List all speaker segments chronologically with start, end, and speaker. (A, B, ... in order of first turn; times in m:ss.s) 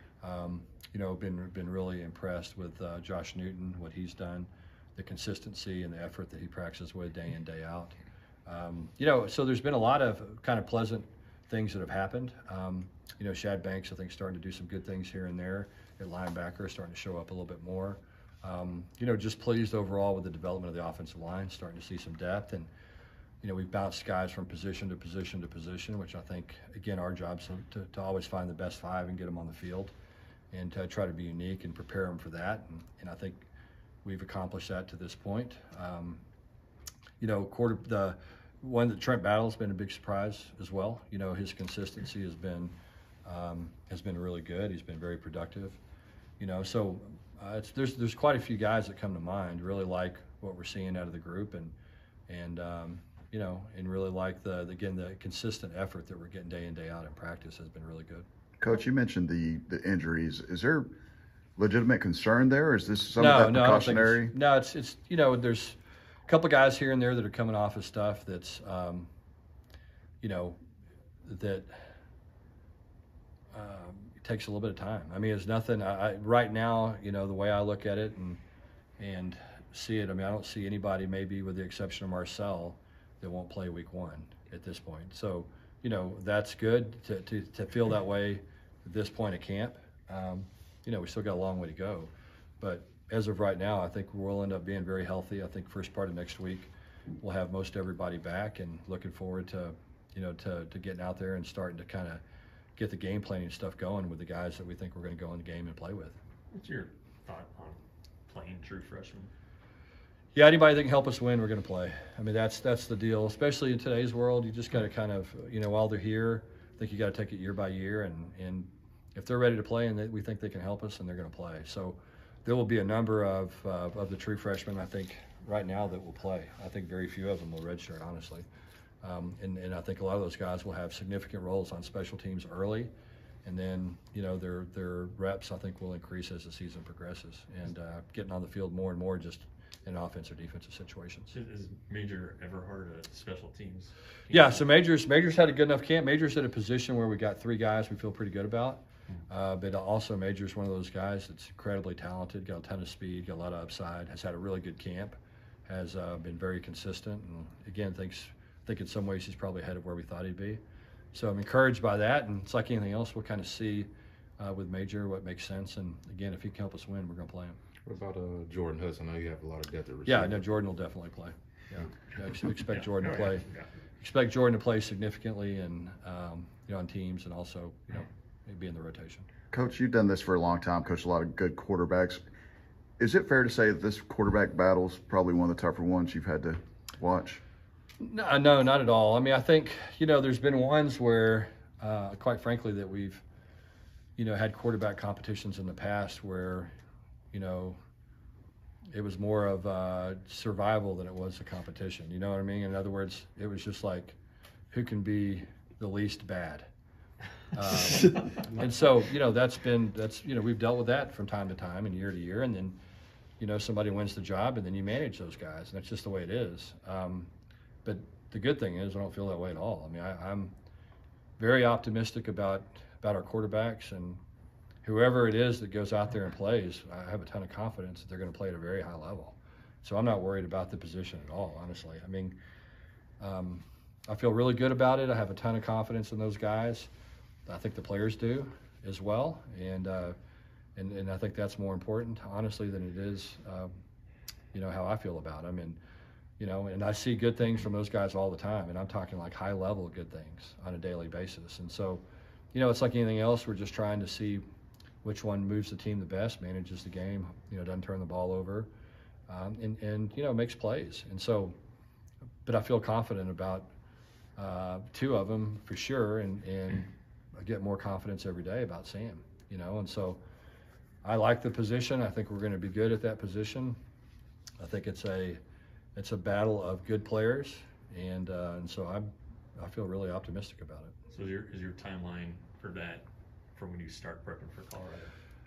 0:00.2-0:22.7 A
0:23.4-0:29.9 A
0:30.5-0:33.4 A
0:34.0-0:36.2 A
0:37.2-0:45.8 A
0:46.4-0:51.7 A
0:52.3-0:58.3 A
0:58.6-1:00.9 B
1:01.6-1:04.3 B
1:03.2-1:09.1 A
1:10.2-1:10.6 A
1:11.2-1:11.9 A
1:13.5-1:18.4 A
1:19.0-1:42.2 A
1:42.8-1:46.2 A
1:46.5-1:49.3 C
1:50.3-2:08.5 A
2:09.0-2:12.9 A
2:13.4-2:21.3 A
2:21.3-2:24.6 C
2:24.3-2:40.6 A
2:41.1-2:47.6 A
2:47.8-2:50.4 D
2:50.1-2:53.4 A
2:52.7-2:53.7 C
2:54.0-2:59.3 A
2:59.5-3:02.2 B
3:03.0-3:07.4 B
3:08.0-3:13.2 A
3:14.2-3:16.7 A
3:17.3-3:17.8 A
3:18.9-3:24.2 A
3:24.7-3:26.7 A
3:27.5-3:32.8 A
3:28.0-3:28.4 C
3:33.4-3:37.3 A
3:37.8-3:40.5 A
3:41.4-3:44.2 A
3:44.8-3:52.4 A
3:53.2-3:56.9 A
3:57.5-4:00.2 A
4:00.8-4:03.7 A
4:04.5-4:05.8 A
4:06.4-4:12.0 A
4:12.5-4:14.4 A
4:15.0-4:18.7 A
4:19.3-4:21.6 A
4:22.4-4:23.7 A
4:24.4-4:30.2 A
4:31.0-4:33.8 A
4:34.6-4:35.4 A
4:36.0-4:40.9 A
4:41.1-4:45.1 C